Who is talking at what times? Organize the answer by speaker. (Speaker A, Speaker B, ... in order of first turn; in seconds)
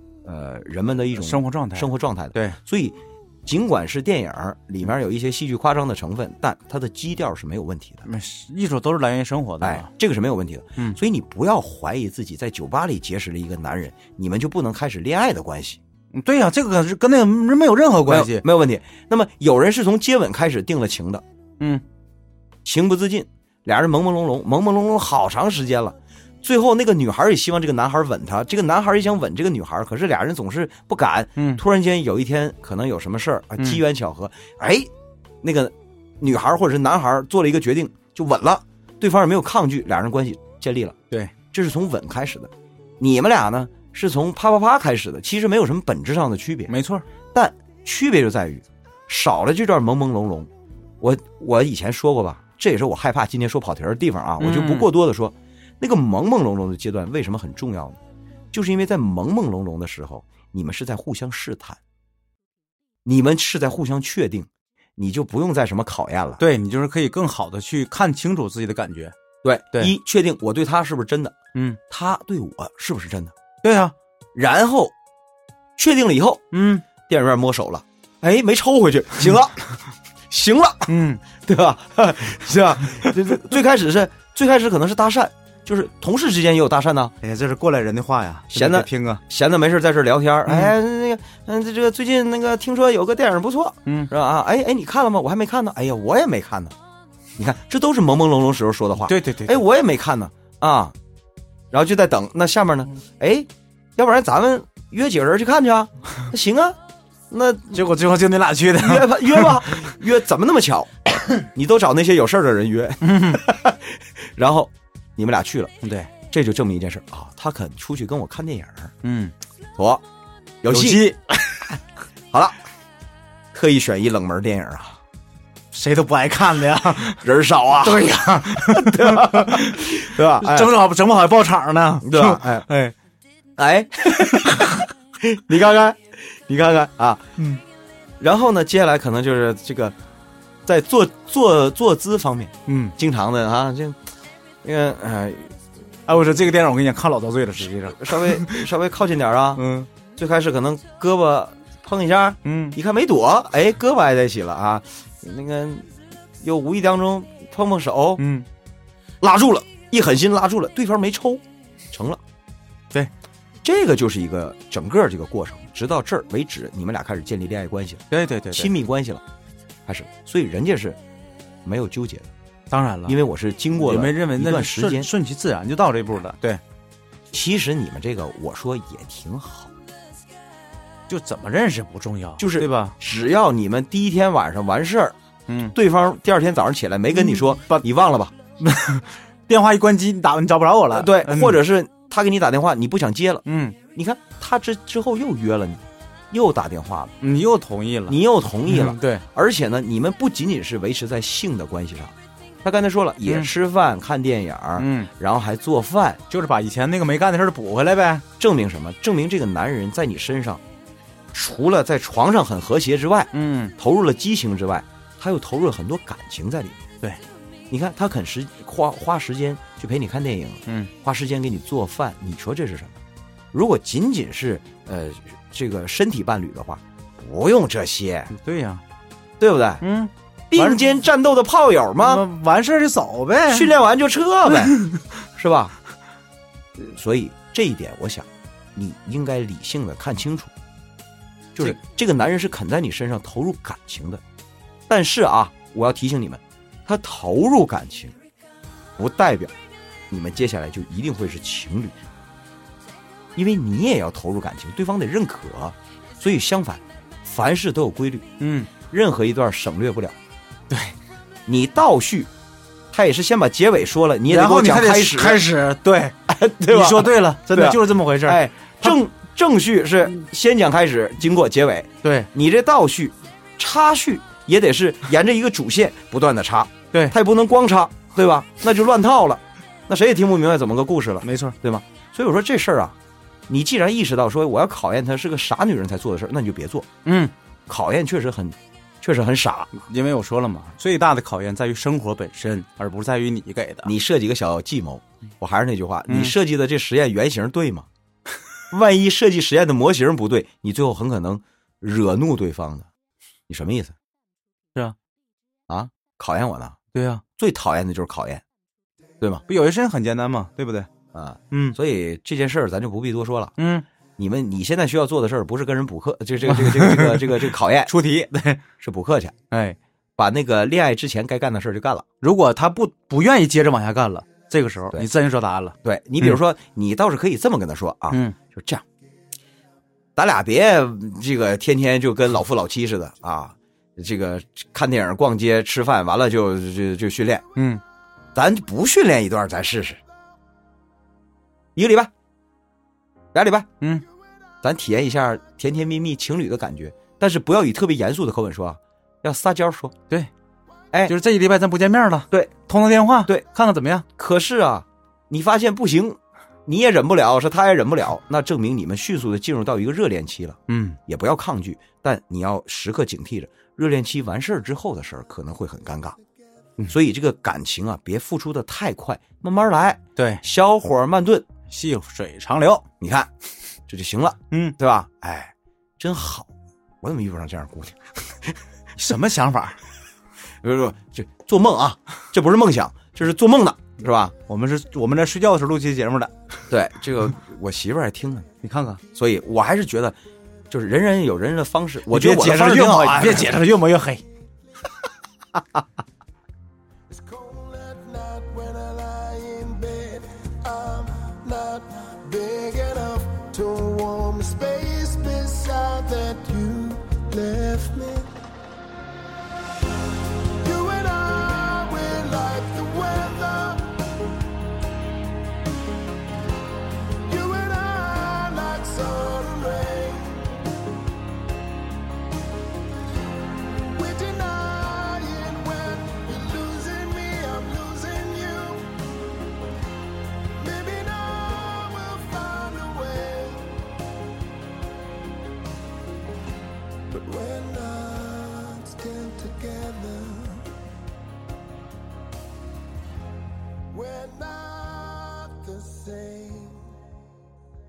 Speaker A: 0.2-8.1, 9.6-15.8, 18.1-21.2, 22.6-34.9, 35.4-41.0, 41.5-46.7, 47.3-50.5, 51.0-58.0, 58.5-61.8, 63.0-66.4, 69.4-71.4, 71.9-73.3, 74.3-74.9, 75.8-79.7, 80.3-87.1, 88.5-96.7, 97.4-100.9, 101.7-106.8, 107.3-107.8, 108.8-115.7, 116.3-118.9, 119.8-120.0, 120.6-121.1, 123.5-125.0, 127.2-130.8, 132.0-132.7, 133.6-137.3, 138.2-139.9, 140.7-144.0, 144.6-145.6, 147.9-149.6, 150.2-155.9, 156.4-158.2, 159.2-162.2, 163.6-169.2, 169.9-171.0, 171.6-172.3, 173.1-175.1, 177.3-179.7, 182.4-185.2, 185.7-188.3, 190.9-197.1, 198.1-206.2, 208.4-210.6, 211.3-216.8, 217.7-223.0, 223.5-228.3, 229.4-229.8, 230.5-232.2, 233.5-234.8, 235.3-235.7, 236.8-240.5, 241.5-244.2, 244.9-248.1, 249.0-249.5, 250.1-252.0, 253.3-260.1, 261.5-262.3, 262.9-265.4, 266.3-282.9, 283.5-286.9, 287.7-289.7, 293.8-297.9, 298.7-302.9, 303.5-303.9, 305.7-306.8, 307.4-308.4, 311.1-313.5, 314.2-317.9, 318.8-319.4, 320.2-322.0, 325.8-328.8, 330.1-337.4, 338.3-340.0, 341.8-342.1, 343.3-343.7, 344.6-349.9, 354.1-366.2, 366.9-371.4, 373.0-373.3, 373.9-376.5, 377.0-378.6, 380.6-384.3, 386.7-388.5, 389.1-390.2, 390.7-393.5
Speaker B: 1.1-2.6, 8.0-9.9, 16.1-18.4, 46.7-47.0, 54.4-54.9, 66.4-69.1, 73.6-73.9, 76.5-76.8, 80.9-81.2, 87.2-89.2, 90.5-90.7, 93.8-94.1, 99.0-99.6, 107.7-109.9, 113.0-113.4, 115.8-116.1, 119.0-119.3, 120.7-121.8, 125.7-127.3, 127.8-132.9, 142.7-142.9, 146.1-148.7, 149.6-149.9, 152.4-152.8, 158.2-158.4, 168.1-168.7, 172.7-173.2, 173.7-176.6, 181.1-182.9, 185.5-185.7, 187.1-187.8, 188.6-191.6, 193.4-193.8, 197.2-199.2, 203.2-203.5, 204.8-205.1, 206.3-208.2, 213.3-213.7, 228.3-228.8, 229.8-230.9, 232.0-233.7, 234.5-235.0, 258.4-258.7, 260.7-261.0, 264.3-269.0, 272.0-272.3, 281.2-281.6, 287.0-287.3, 289.7-293.9, 296.1-296.3, 306.9-307.2, 309.5-310.9, 311.5-311.8, 313.6-313.9, 316.4-318.6, 319.5-319.8, 322.2-326.4, 328.1-328.4, 337.6-337.8, 351.1-354.1, 360.7-361.0, 370.1-370.4, 371.7-372.8, 379.0-379.8, 384.5-386.3, 388.6-389.0, 392.1-394.2
Speaker C: 397.1-408.4, 410.6-414.1, 417.2-420.7, 423.8-429.0, 430.6-433.8, 437.1-440.7, 443.9-447.0